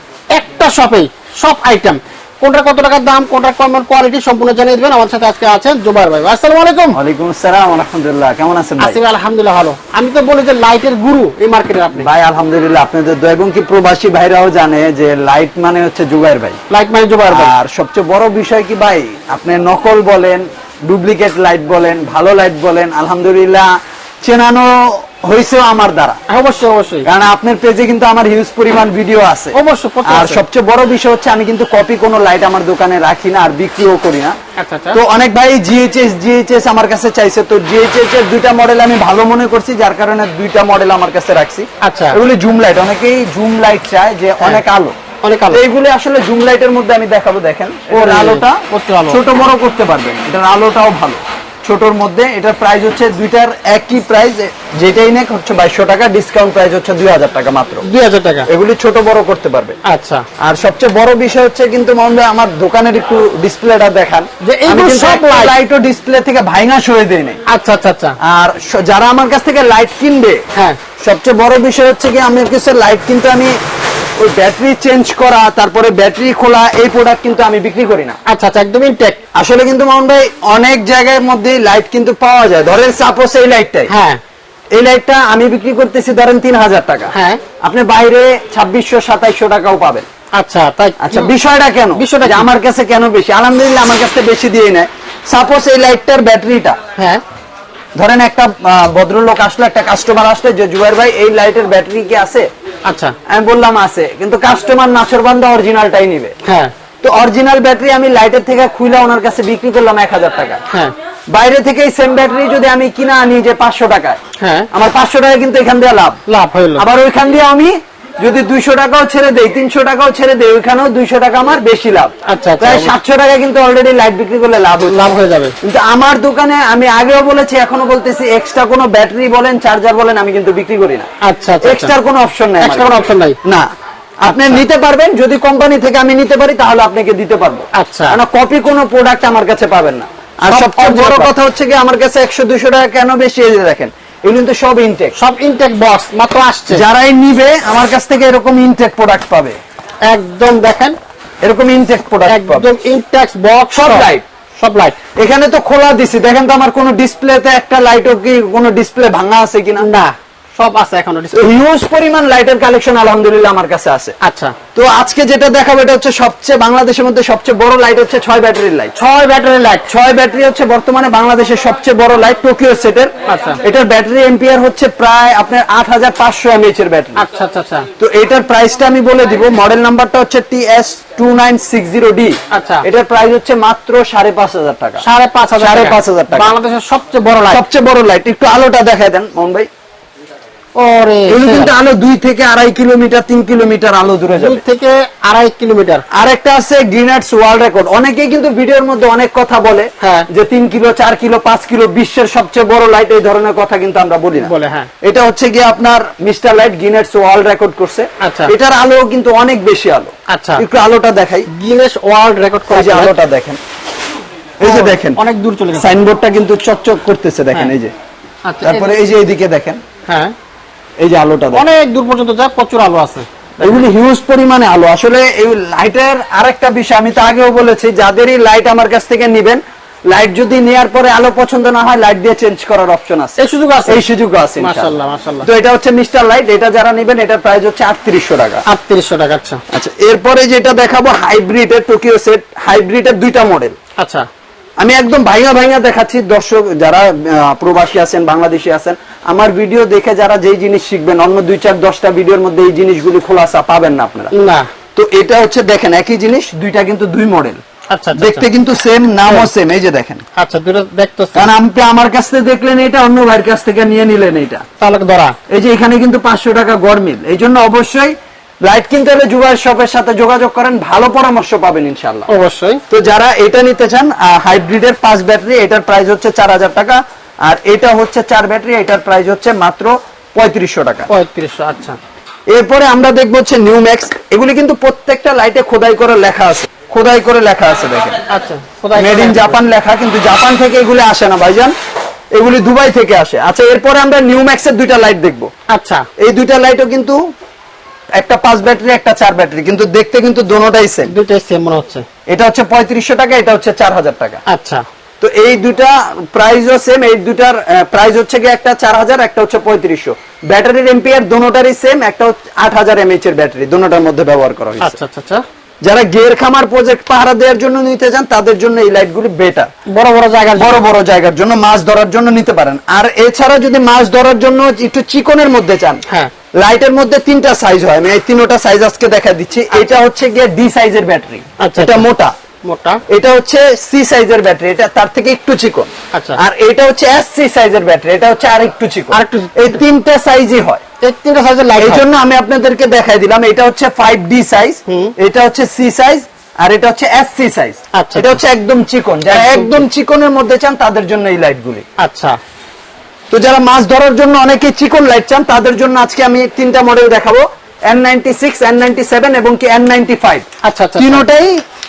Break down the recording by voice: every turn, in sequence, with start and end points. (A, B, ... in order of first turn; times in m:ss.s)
0:00.3-0:07.0 A
0:06.9-0:09.0 B
0:08.8-0:12.1 A
0:12.0-0:16.6 B
0:16.7-0:17.5 A
0:17.3-0:23.7 B
0:24.2-0:26.2 B
0:26.3-0:27.1 A
0:27.0-0:34.3 B
0:29.5-0:30.4 A
0:34.6-0:35.0 A
0:34.9-0:44.9 B
0:41.8-0:42.2 A
0:45.2-0:45.6 A
0:45.5-0:57.8 B
0:47.9-0:49.2 A
0:57.8-0:58.5 A
0:58.5-0:59.8 B
0:59.8-1:00.2 A
1:00.4-1:07.4 B
1:04.4-1:05.6 A
1:07.5-1:08.2 A
1:08.2-1:10.4 B
1:11.0-1:13.6 B
1:14.2-1:18.2 B
1:18.3-1:19.2 A
1:19.3-1:23.9 B
1:23.9-1:24.2 A
1:24.7-1:27.1 B
1:27.1-1:27.4 A
1:27.6-1:30.1 B
1:30.4-1:31.3 A
1:31.0-1:36.8 B
1:32.0-1:32.5 A
1:36.9-1:37.2 A
1:37.9-1:42.5 B
1:42.8-1:43.1 A
1:43.3-1:46.3 B
1:46.4-1:46.7 A
1:47.0-1:50.6 B
1:50.7-1:50.9 A
1:51.3-1:54.2 B
1:54.4-1:54.7 A
1:54.7-1:56.2 B
1:56.3-1:56.8 A
1:56.8-2:05.1 B
2:02.3-2:02.9 A
2:04.9-2:05.5 A
2:05.6-2:11.1 B
2:11.2-2:11.9 A
2:11.6-2:13.7 B
2:12.6-2:13.4 A
2:14.2-2:25.1 B
2:14.3-2:14.6 A
2:17.7-2:18.2 A
2:20.5-2:21.3 A
2:25.1-2:26.8 A
2:26.7-2:29.6 B
2:30.1-2:31.0 A
2:31.4-2:32.7 B
2:32.3-2:35.0 A
2:33.7-2:34.2 B
2:35.2-2:39.8 B
2:39.8-2:41.5 A
2:41.3-2:44.1 B
2:44.2-2:44.6 A
2:44.7-2:48.9 B
2:49.0-2:49.9 A
2:49.9-2:57.2 B
2:53.2-2:53.6 A
2:57.1-2:57.9 A
2:58.0-3:05.0 B
3:02.5-3:02.8 A
3:05.0-3:07.6 A
3:05.6-3:06.5 B
3:07.5-3:09.7 B
3:10.8-3:11.8 A
3:11.3-3:14.6 B
3:14.4-3:16.0 A
3:16.1-3:24.5 B
3:20.0-3:20.3 A
3:24.4-3:24.9 A
3:25.0-3:31.5 B
3:28.2-3:28.5 A
3:30.3-3:30.6 A
3:31.5-3:33.1 A
3:32.7-3:33.6 B
3:34.6-3:35.2 B
3:34.6-3:35.9 A
3:35.8-3:37.9 B
3:38.5-3:38.9 A
3:38.6-3:39.8 B
3:40.1-3:40.3 A
3:41.0-3:41.6 B
3:41.5-3:43.8 A
3:43.6-3:58.6 B
3:53.4-3:54.0 A
3:54.6-3:55.5 A
3:58.6-3:59.6 A
3:59.7-4:03.8 B
4:04.0-4:04.3 A
4:04.8-4:14.3 B
4:14.3-4:14.7 A
4:14.9-4:17.6 B
4:17.9-4:18.4 A
4:18.2-4:20.2 B
4:20.4-4:21.5 A
4:21.3-4:24.6 B
4:24.8-4:25.4 A
4:25.5-4:32.3 B
4:32.3-4:32.8 A
4:32.9-4:41.1 B
4:41.1-4:42.0 A
4:42.5-4:48.2 B
4:48.3-4:49.6 A
4:48.9-4:51.7 B
4:52.3-4:55.5 B
4:55.7-4:56.0 A
4:56.2-4:57.2 B
4:58.2-5:01.1 B
5:01.1-5:02.0 A
5:02.3-5:04.4 B
5:04.5-5:04.8 A
5:05.2-5:15.0 B
5:14.8-5:15.4 A
5:15.8-5:19.7 B
5:19.9-5:20.8 A
5:20.6-5:26.0 B
5:26.6-5:32.3 B
5:31.6-5:32.0 A
5:32.6-5:33.0 A
5:33.1-5:40.8 B
5:36.1-5:36.4 A
5:39.1-5:39.8 A
5:41.0-5:42.0 A
5:41.8-5:51.8 B
5:44.9-5:45.1 A
5:47.9-5:48.4 A
5:49.3-5:49.8 A
5:52.0-5:52.4 A
5:53.3-6:00.4 B
6:00.6-6:01.2 A
6:01.0-6:01.6 B